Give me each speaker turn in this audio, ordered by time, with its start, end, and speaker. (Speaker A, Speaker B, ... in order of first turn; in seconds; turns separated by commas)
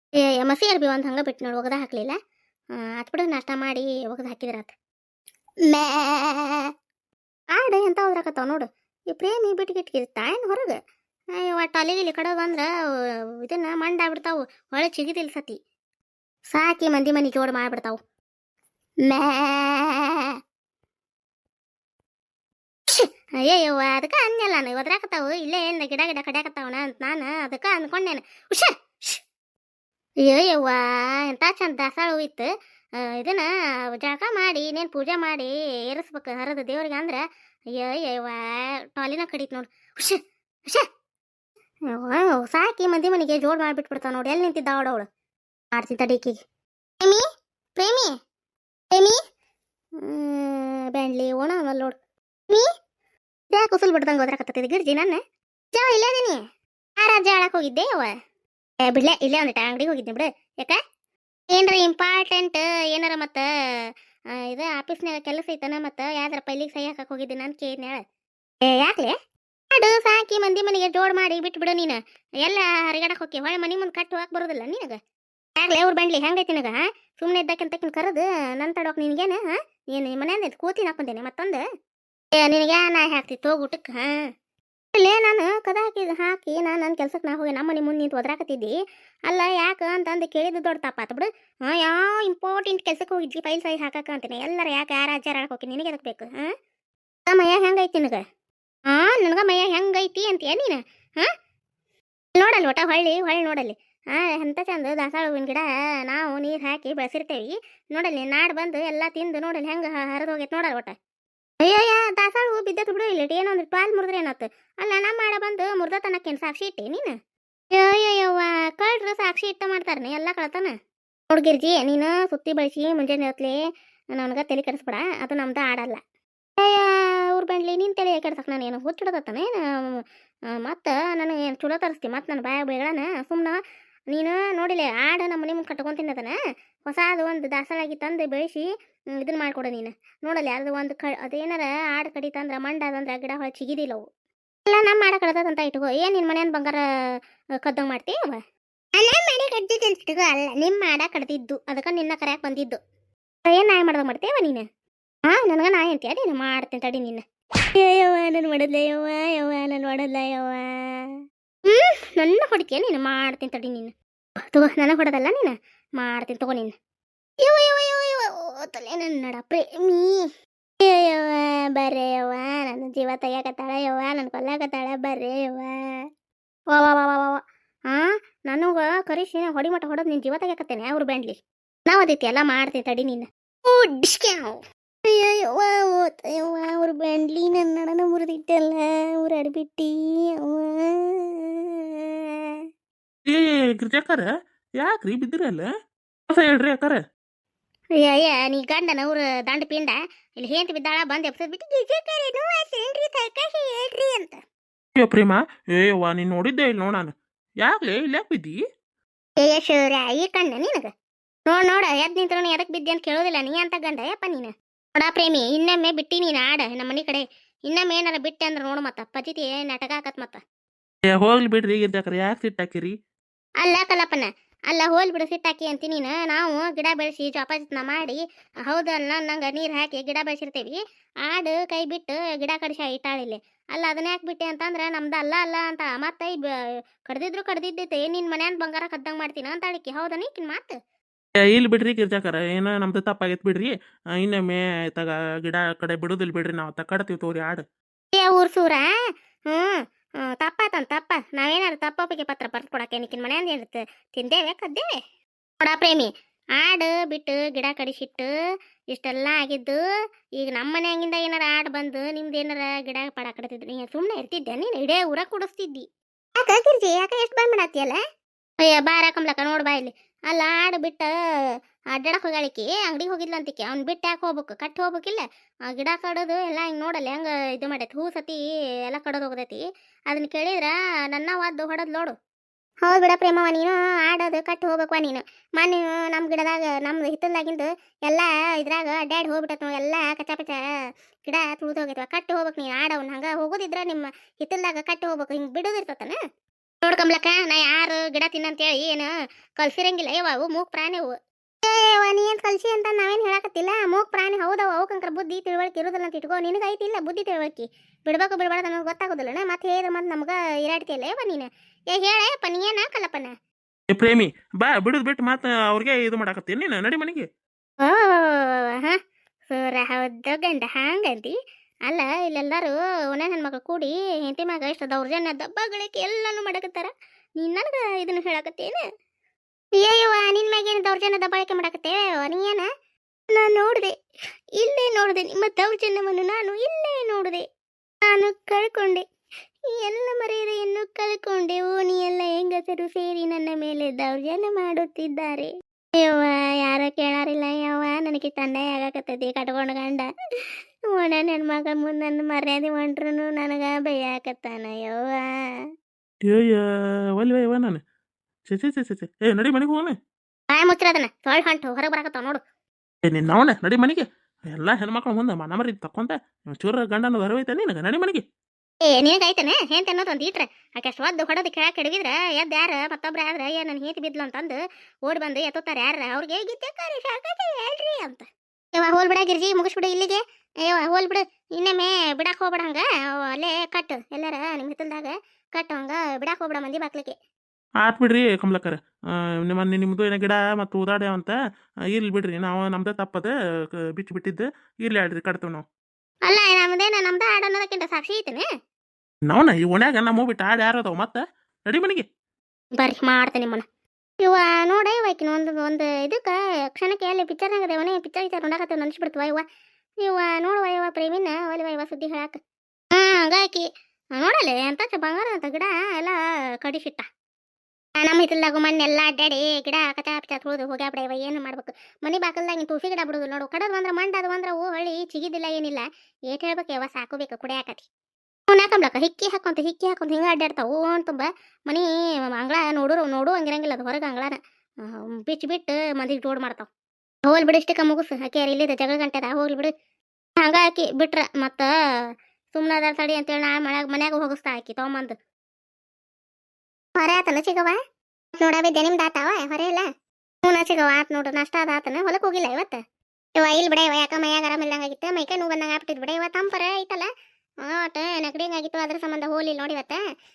Speaker A: 0.2-2.1, Speaker A: 3.0-4.7, Speaker A: 5.7-6.7, Speaker A: 7.5-10.8, Speaker A: 11.3-12.7, Speaker A: 13.4-15.6, Speaker A: 16.5-18.0, Speaker A: 19.0-20.4, Speaker A: 22.9-29.2, Speaker A: 30.2-37.2, Speaker A: 37.8-40.8, Speaker A: 41.9-45.1, Speaker A: 45.7-46.4, Speaker A: 47.8-48.1, Speaker A: 48.9-49.2, Speaker A: 50.0-52.0, Speaker A: 53.5-55.2, Speaker A: 55.7-56.4, Speaker A: 57.0-58.1, Speaker A: 58.9-60.8, Speaker A: 61.5-68.0, Speaker A: 68.6-69.1, Speaker A: 69.7-75.0, Speaker A: 75.6-81.6, Speaker A: 82.3-84.2, Speaker A: 84.9-88.8, Speaker A: 89.3-96.5, Speaker A: 97.3-98.2, Speaker A: 98.9-101.3, Speaker A: 102.3-110.9, Speaker A: 111.6-117.1, Speaker A: 117.7-120.7, Speaker A: 121.3-123.6, Speaker A: 124.2-126.0, Speaker A: 126.6-130.0, Speaker A: 130.5-133.6, Speaker A: 134.1-136.3, Speaker A: 136.9-144.0, Speaker A: 144.7-146.8, Speaker A: 147.6-148.4, Speaker A: 148.9-152.8, Speaker A: 153.4-154.6, Speaker A: 155.3-161.2, Speaker A: 161.7-163.9, Speaker A: 164.5-166.7, Speaker A: 167.4-170.2, Speaker A: 170.8-176.1, Speaker A: 176.7-192.6, Speaker B: 193.2-194.3, Speaker B: 194.8-195.7, Speaker B: 196.3-197.0, Speaker A: 198.0-204.4, Speaker B: 205.0-208.6, Speaker A: 209.4-210.9, Speaker A: 211.5-220.4, Speaker B: 221.1-222.9, Speaker A: 223.6-236.5, Speaker A: 237.1-240.8, Speaker B: 241.5-247.6, Speaker A: 248.1-248.9, Speaker A: 249.5-254.9, Speaker A: 255.6-258.3, Speaker A: 258.9-259.8, Speaker A: 260.4-265.9, Speaker A: 266.4-268.0, Speaker A: 268.6-271.1, Speaker A: 271.9-282.1, Speaker A: 282.8-290.6, Speaker A: 291.2-296.2, Speaker A: 296.8-313.3, Speaker B: 313.9-317.2, Speaker A: 317.8-321.3, Speaker A: 321.9-328.8, Speaker A: 329.8-332.7, Speaker A: 333.3-333.9, Speaker A: 334.6-337.4, Speaker A: 338.1-339.0, Speaker A: 339.7-350.1, Speaker A: 350.9-355.7, Speaker B: 356.2-356.6, Speaker B: 357.1-357.8, Speaker B: 358.5-359.9, Speaker A: 360.5-362.4, Speaker B: 363.0-368.2, Speaker A: 368.9-387.1, Speaker B: 387.8-388.8, Speaker B: 389.4-391.4, Speaker B: 391.9-393.3, Speaker B: 393.9-395.6, Speaker A: 396.3-398.4, Speaker B: 399.3-402.1, Speaker A: 402.7-403.6, Speaker A: 404.2-409.4, Speaker A: 410.0-412.4, Speaker A: 412.9-417.1, Speaker A: 418.0-427.9, Speaker A: 428.5-436.7, Speaker A: 437.2-439.7, Speaker A: 440.4-441.7, Speaker A: 442.5-445.1, Speaker A: 447.0-447.8, Speaker A: 448.4-449.9, Speaker A: 450.4-452.8, Speaker A: 453.4-457.1, Speaker A: 457.6-460.0